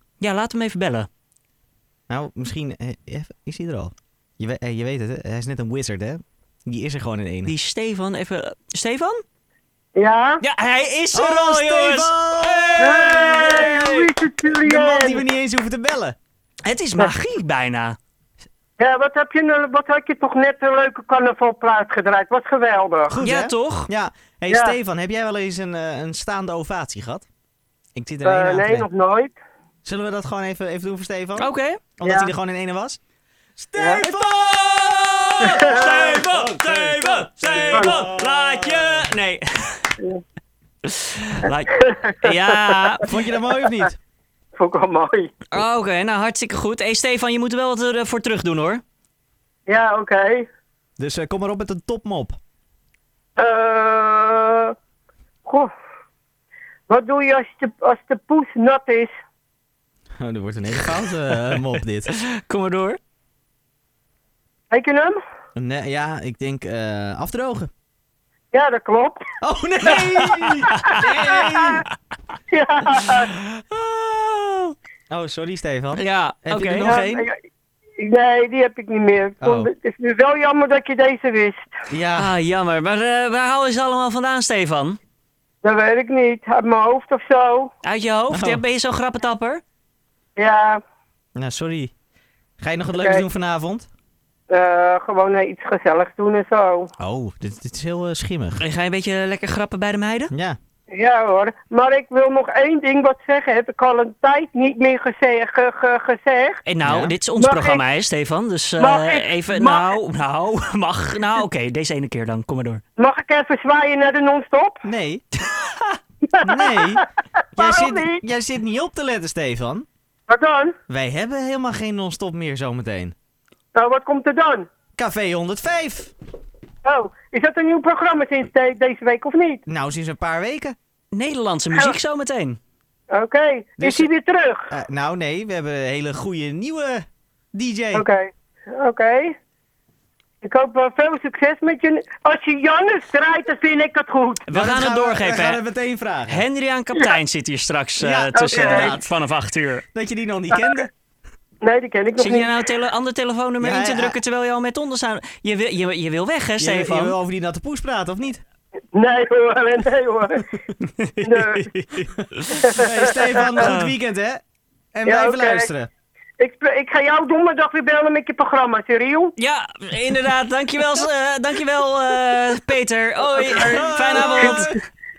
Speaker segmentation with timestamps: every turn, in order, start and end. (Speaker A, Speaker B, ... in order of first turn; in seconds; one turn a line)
Speaker A: 0.2-1.1
Speaker B: 2.1-7.5
Speaker A: 7.5-9.2
Speaker C: 9.9-10.4
Speaker A: 10.4-12.8
Speaker B: 11.1-16.1
Speaker C: 12.8-15.2
Speaker A: 16.6-18.0
Speaker C: 18.8-23.1
Speaker B: 23.1-27.2
Speaker A: 23.2-23.9
Speaker C: 24.5-24.8
Speaker B: 27.9-28.9
Speaker C: 28.2-29.4
Speaker B: 29.8-33.0
Speaker A: 31.4-31.8
Speaker C: 32.0-32.3
Speaker B: 33.6-39.0
Speaker C: 33.8-34.0
Speaker A: 35.4-39.9
Speaker C: 35.4-36.1
Speaker C: 37.7-38.0
Speaker A: 40.8-41.7
Speaker C: 41.7-42.9
Speaker A: 42.2-43.0
Speaker B: 43.0-43.9
Speaker C: 44.6-45.3
Speaker A: 45.5-48.8
Speaker C: 49.7-50.5
Speaker B: 51.0-52.4
Speaker C: 53.4-54.7
Speaker C: 55.5-55.7
Speaker C: 56.9-59.1
Speaker B: 60.2-62.1
Speaker A: 62.1-63.0
Speaker C: 64.7-65.2
Speaker B: 65.5-67.7
Speaker C: 68.5-69.3
Speaker B: 69.4-71.8
Speaker C: 69.8-71.8
Speaker A: 70.5-70.8
Speaker C: 72.5-73.3
Speaker B: 75.1-77.2
Speaker A: 76.0-76.9
Speaker C: 76.8-77.4
Speaker C: 78.0-81.7
Speaker B: 79.4-79.7
Speaker B: 81.9-82.3
Speaker A: 82.2-85.0
Speaker C: 85.6-87.7
Speaker A: 87.8-89.6
Speaker B: 88.3-88.6
Speaker C: 90.4-90.8
Speaker B: 91.3-91.9
Speaker B: 92.6-93.9
Speaker C: 93.0-93.2
Speaker C: 94.5-96.9
Speaker B: 97.0-98.6
Speaker A: 98.6-100.3
Speaker B: 100.3-100.6
Speaker C: 100.9-106.6
Speaker A: 106.7-112.8
Speaker B: 106.8-107.1
Speaker C: 107.4-107.8
Speaker C: 108.8-109.9
Speaker C: 113.0-114.8
Speaker B: 114.8-115.2
Speaker A: 115.5-115.9
Speaker C: 116.3-117.0
Speaker B: 116.4-117.0
Speaker B: 117.5-119.8
Speaker C: 117.6-118.2
Speaker C: 120.3-120.7
Speaker B: 120.9-123.1
Speaker C: 123.7-124.7
Speaker B: 125.0-126.1
Speaker C: 126.8-129.6
Speaker B: 129.7-130.7
Speaker A: 131.1-132.6
Speaker C: 133.1-134.7
Speaker B: 133.8-134.1
Speaker B: 134.7-138.0
Speaker C: 137.9-139.3
Speaker C: 140.4-144.4
Speaker A: 144.5-145.6
Speaker B: 144.5-146.4
Speaker A: 146.3-149.8
Speaker B: 148.0-149.0
Speaker C: 148.3-148.9
Speaker B: 149.9-150.9
Speaker C: 151.6-152.5
Speaker A: 152.2-157.2
Speaker B: 153.6-154.2
Speaker B: 156.6-158.4
Speaker C: 158.9-160.5
Speaker C: 161.2-161.7
Speaker B: 162.0-164.4
Speaker C: 162.5-163.7
Speaker B: 164.9-165.9
Speaker C: 165.1-165.7
Speaker C: 166.4-169.3
Speaker A: 169.4-174.7
Speaker C: 173.4-174.6
Speaker B: 173.5-174.8